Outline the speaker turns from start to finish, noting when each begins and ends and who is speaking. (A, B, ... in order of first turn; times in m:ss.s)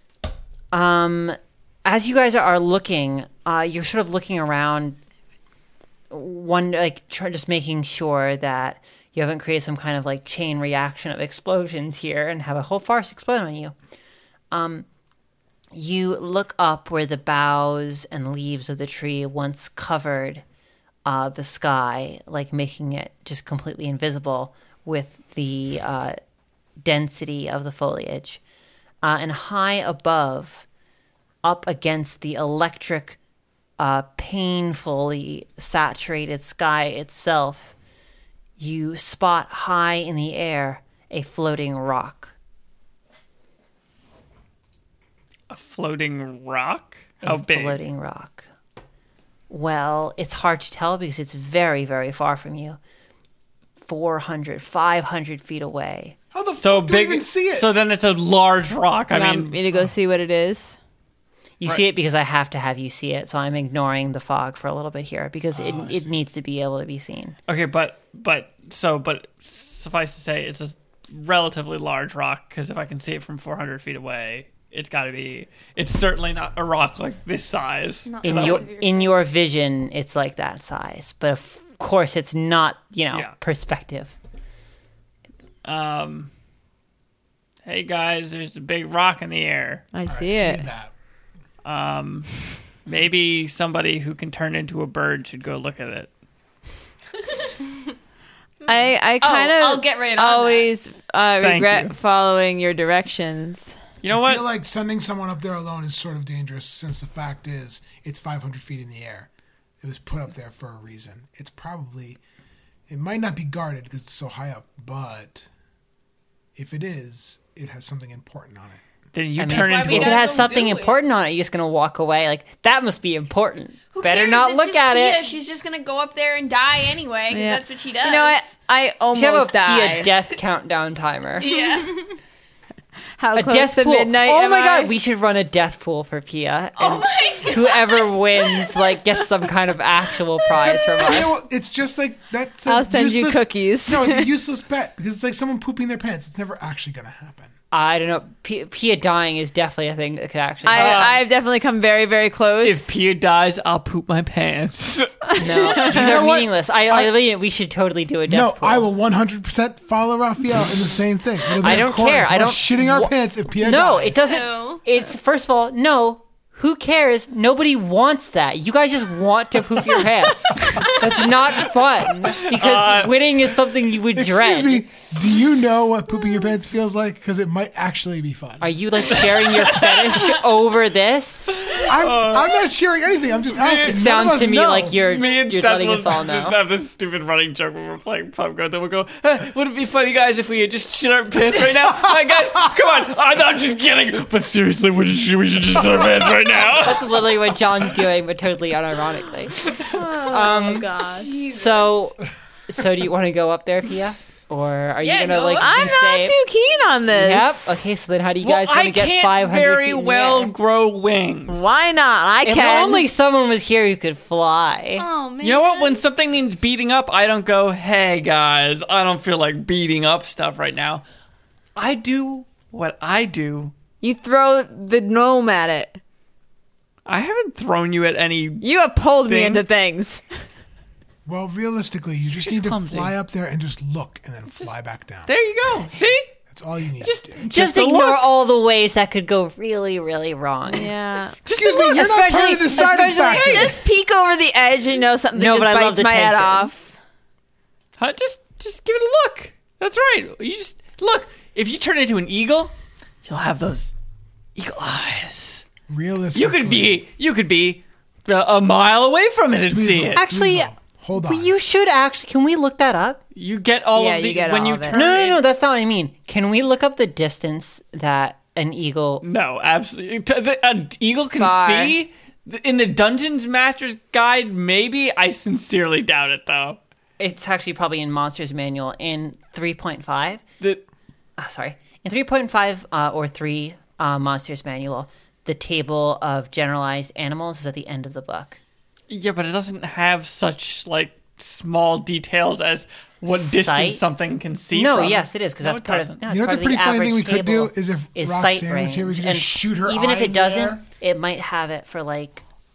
0:00.7-0:05.0 A
0:06.1-0:13.7 A
0:14.5-0:14.9 A
0:15.7-0:20.4 A
0:21.0-0:26.2 A
0:26.8-0:28.4 A
0:29.0-0:30.7 A
0:31.4-0:33.2 A
0:33.8-0:37.8 A
0:38.6-0:42.3 A
0:45.5-0:47.8 B
0:47.2-0:48.5 A
0:49.5-0:52.8 A
0:53.8-0:56.2 A
0:56.3-0:57.7 C
0:56.6-0:59.6 B
0:59.1-1:00.8 D
1:01.6-1:07.4 A
1:05.5-1:06.2 C
1:07.5-1:18.7 B
1:18.0-1:19.2 E
1:18.2-1:24.2 A
1:25.6-1:26.3 B
1:27.6-1:29.8 B
1:29.9-1:30.7 D
1:30.1-1:30.9 C
1:31.6-1:36.1 B
1:38.6-1:40.7 F
1:38.7-1:43.7 D
1:41.4-1:42.0 B
1:44.0-1:44.4 B
1:44.1-1:49.3 C
1:49.8-1:52.2 C
1:52.9-1:55.5 C
1:56.6-1:58.8 C
1:59.1-2:00.3 B
1:59.4-2:05.3 A
1:59.4-2:01.0 F
2:03.9-2:08.6 F
2:07.3-2:10.1 D
2:09.1-2:11.6 A
2:11.4-2:12.2 F
2:13.2-2:14.9 D
2:13.3-2:21.4 A
2:16.8-2:19.2 F
2:20.5-2:27.5 C
2:22.7-2:24.3 D
2:27.7-2:31.1 A
2:30.6-2:33.0 D
2:30.7-2:31.2 B
2:32.6-2:35.3 B
2:35.4-2:38.9 A
2:35.5-2:37.2 C
2:38.3-2:44.2 C
2:41.6-2:54.9 A
2:44.2-2:44.9 E
2:52.3-2:53.2 B
2:54.1-2:59.0 C
2:58.6-3:01.7 A
2:59.1-3:00.4 B
3:01.5-3:02.6 B
3:01.8-3:05.0 C
3:03.5-3:04.2 B
3:03.9-3:06.6 A
3:04.9-3:17.4 B
3:16.7-3:26.4 A
3:19.9-3:21.9 F
3:20.0-3:20.8 D
3:25.0-3:26.1 F
3:25.6-3:27.9 D
3:27.1-3:30.5 A
3:28.4-3:31.7 B
3:31.5-3:33.1 D
3:32.4-3:35.1 A
3:35.0-3:36.1 E
3:35.4-3:41.0 B
3:41.8-3:43.7 B
3:44.0-3:46.0 D
3:47.1-3:48.7 B
3:48.6-3:50.2 D
3:49.2-3:49.6 B
3:51.2-3:55.4 C
3:52.3-3:53.2 B
3:54.5-3:54.8 B
3:55.3-3:56.3 B
3:56.5-3:57.4 C
3:57.0-3:58.3 B
3:57.4-4:00.9 A
4:00.7-4:01.4 D
4:01.5-4:03.7 A
4:01.5-4:03.8 C
4:03.4-4:07.0 D
4:03.5-4:03.8 F
4:05.4-4:06.7 A
4:08.0-4:12.7 B
4:13.2-4:13.9 B
4:14.6-4:15.6 B
4:15.9-4:17.0 C
4:16.3-4:20.2 B
4:19.7-4:21.6 C
4:20.2-4:23.2 A
4:23.3-4:25.4 B
4:23.9-4:25.0 D
4:24.9-4:29.2 A
4:29.2-4:36.8 B
4:31.3-4:32.0 D
4:37.2-4:40.4 A
4:41.4-4:48.6 A
4:49.1-4:56.2 B
4:53.2-4:54.0 A
4:54.7-5:02.4 A
4:56.3-5:00.8 C